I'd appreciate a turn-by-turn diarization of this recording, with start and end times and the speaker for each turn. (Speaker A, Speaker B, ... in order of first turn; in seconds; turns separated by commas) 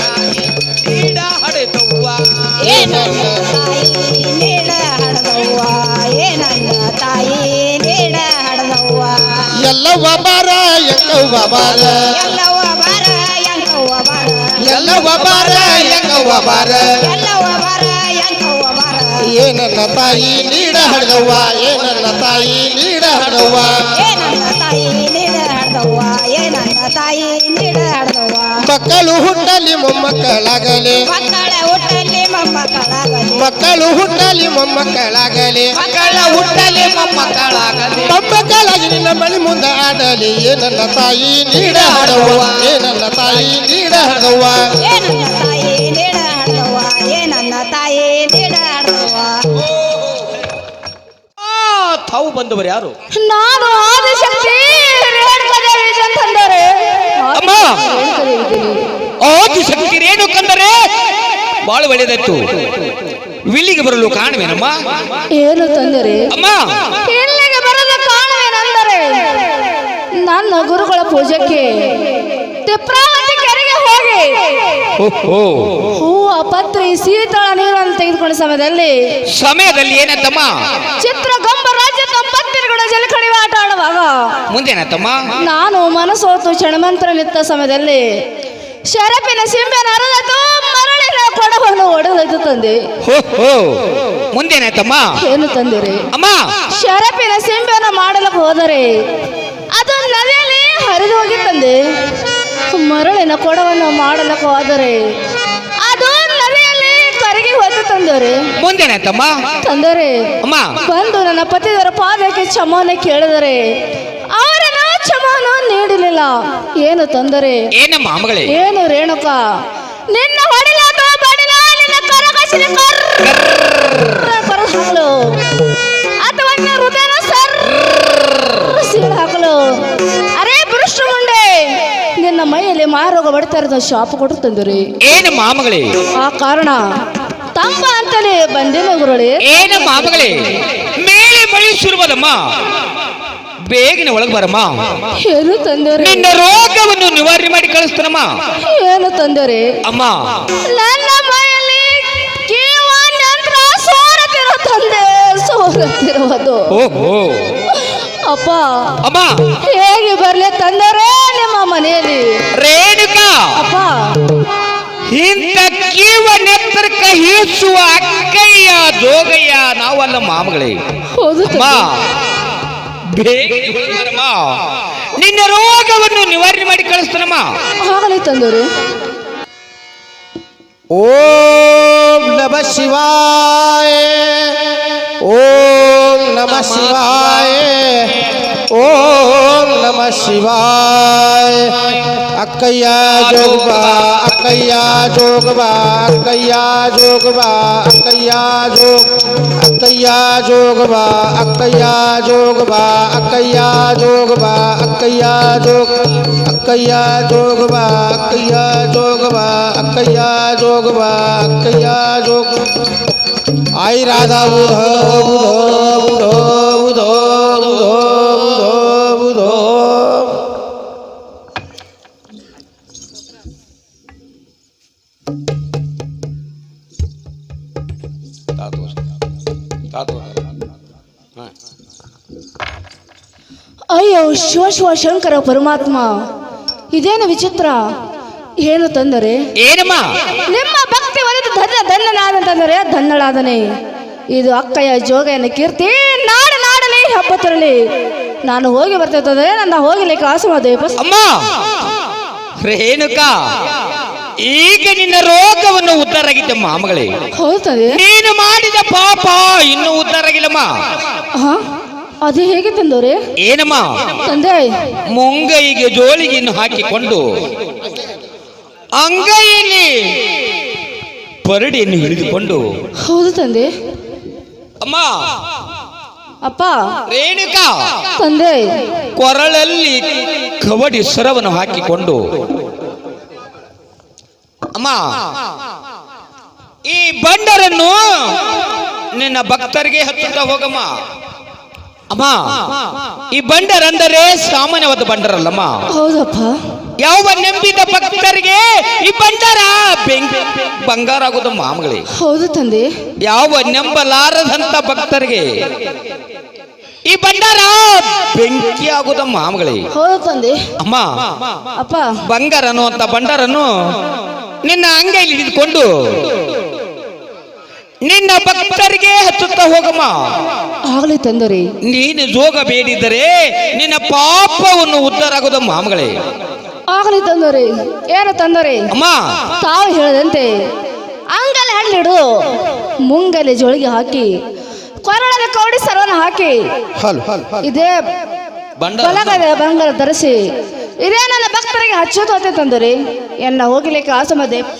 Speaker A: 0.1-2.8, Speaker B: 2.6-9.5, Speaker C: 2.6-3.4, Speaker C: 9.6-12.0, Speaker B: 11.7-14.4, Speaker C: 14.6-16.9, Speaker A: 14.6-16.7, Speaker B: 17.0-19.2, Speaker C: 19.3-23.7, Speaker B: 24.0-28.6, Speaker C: 28.6-31.0, Speaker B: 31.1-33.5, Speaker C: 33.3-35.7, Speaker A: 35.8-38.1, Speaker B: 35.9-36.4, Speaker C: 38.1-44.7, Speaker A: 41.6-42.7, Speaker B: 44.8-49.5, Speaker A: 49.6-50.3, Speaker A: 51.4-53.0, Speaker D: 53.1-58.8, Speaker A: 57.4-57.8, Speaker A: 59.2-60.8, Speaker A: 61.6-62.5, Speaker A: 63.5-64.8, Speaker D: 65.3-66.3, Speaker A: 66.3-66.7, Speaker D: 67.0-69.2, Speaker D: 70.2-72.1, Speaker D: 72.6-74.6, Speaker A: 75.0-75.9, Speaker D: 75.9-78.9, Speaker A: 79.3-80.5, Speaker D: 81.0-84.3, Speaker A: 84.5-85.2, Speaker D: 85.4-88.2, Speaker D: 88.9-92.8, Speaker A: 93.0-95.1, Speaker D: 95.2-96.0, Speaker A: 96.1-96.4, Speaker D: 96.8-98.9, Speaker D: 99.7-101.8, Speaker D: 102.7-105.0, Speaker D: 105.8-108.4, Speaker A: 108.6-109.3, Speaker D: 109.6-110.2, Speaker A: 110.4-110.7, Speaker D: 110.8-113.6, Speaker D: 114.3-117.7, Speaker A: 117.8-118.5, Speaker D: 118.5-119.4, Speaker D: 120.1-123.3, Speaker A: 123.2-123.9, Speaker D: 124.0-125.5, Speaker D: 126.2-134.8, Speaker A: 135.0-135.9, Speaker D: 136.2-136.8, Speaker D: 137.5-139.4, Speaker A: 139.4-140.4, Speaker A: 140.9-142.4, Speaker A: 143.7-144.8, Speaker D: 145.2-146.3, Speaker A: 146.0-148.3, Speaker D: 148.6-149.7, Speaker A: 149.8-150.4, Speaker D: 150.6-156.7, Speaker A: 156.7-157.6, Speaker D: 157.7-158.9, Speaker A: 159.0-159.4, Speaker D: 159.6-162.4, Speaker A: 162.6-163.5, Speaker D: 163.5-164.2, Speaker A: 165.1-170.8, Speaker D: 171.1-171.8, Speaker A: 171.5-172.0, Speaker A: 173.1-174.6, Speaker A: 175.2-177.5, Speaker D: 177.8-178.7, Speaker C: 180.9-212.7, Speaker A: 186.5-187.6, Speaker A: 193.0-194.7, Speaker C: 213.8-220.4, Speaker A: 228.6-229.0, Speaker A: 229.9-230.4, Speaker D: 233.9-236.1, Speaker D: 236.9-237.8, Speaker D: 238.6-239.4, Speaker A: 239.6-240.1, Speaker D: 240.5-243.6, Speaker D: 244.3-247.8, Speaker D: 248.4-251.0, Speaker A: 251.0-251.4, Speaker A: 252.6-253.4, Speaker A: 254.4-257.1, Speaker D: 257.3-258.0, Speaker A: 257.9-260.7, Speaker D: 261.3-261.6, Speaker D: 262.2-263.2, Speaker A: 263.4-264.2, Speaker D: 264.2-264.7, Speaker A: 265.1-267.2, Speaker A: 268.9-270.2, Speaker A: 271.4-272.7, Speaker D: 273.0-273.7, Speaker A: 274.8-275.2, Speaker D: 276.4-276.8, Speaker A: 277.1-278.0, Speaker D: 278.2-278.7, Speaker A: 279.1-282.4, Speaker A: 284.8-285.2, Speaker A: 286.9-290.9, Speaker A: 292.1-295.8, Speaker D: 295.9-296.5, Speaker A: 297.0-302.0, Speaker D: 302.1-302.9, Speaker A: 303.2-305.5, Speaker A: 307.1-309.9, Speaker D: 309.9-310.6, Speaker A: 310.8-311.6, Speaker D: 311.7-312.1, Speaker A: 312.3-313.7, Speaker A: 314.6-316.3, Speaker A: 318.0-320.1, Speaker D: 320.9-321.7, Speaker A: 321.8-326.2, Speaker D: 326.9-328.9, Speaker A: 328.9-329.2, Speaker D: 329.6-330.6, Speaker D: 331.3-334.3, Speaker D: 335.0-336.6, Speaker C: 337.0-337.7, Speaker D: 337.6-338.0, Speaker A: 338.8-339.4, Speaker D: 339.0-340.4, Speaker D: 341.0-344.7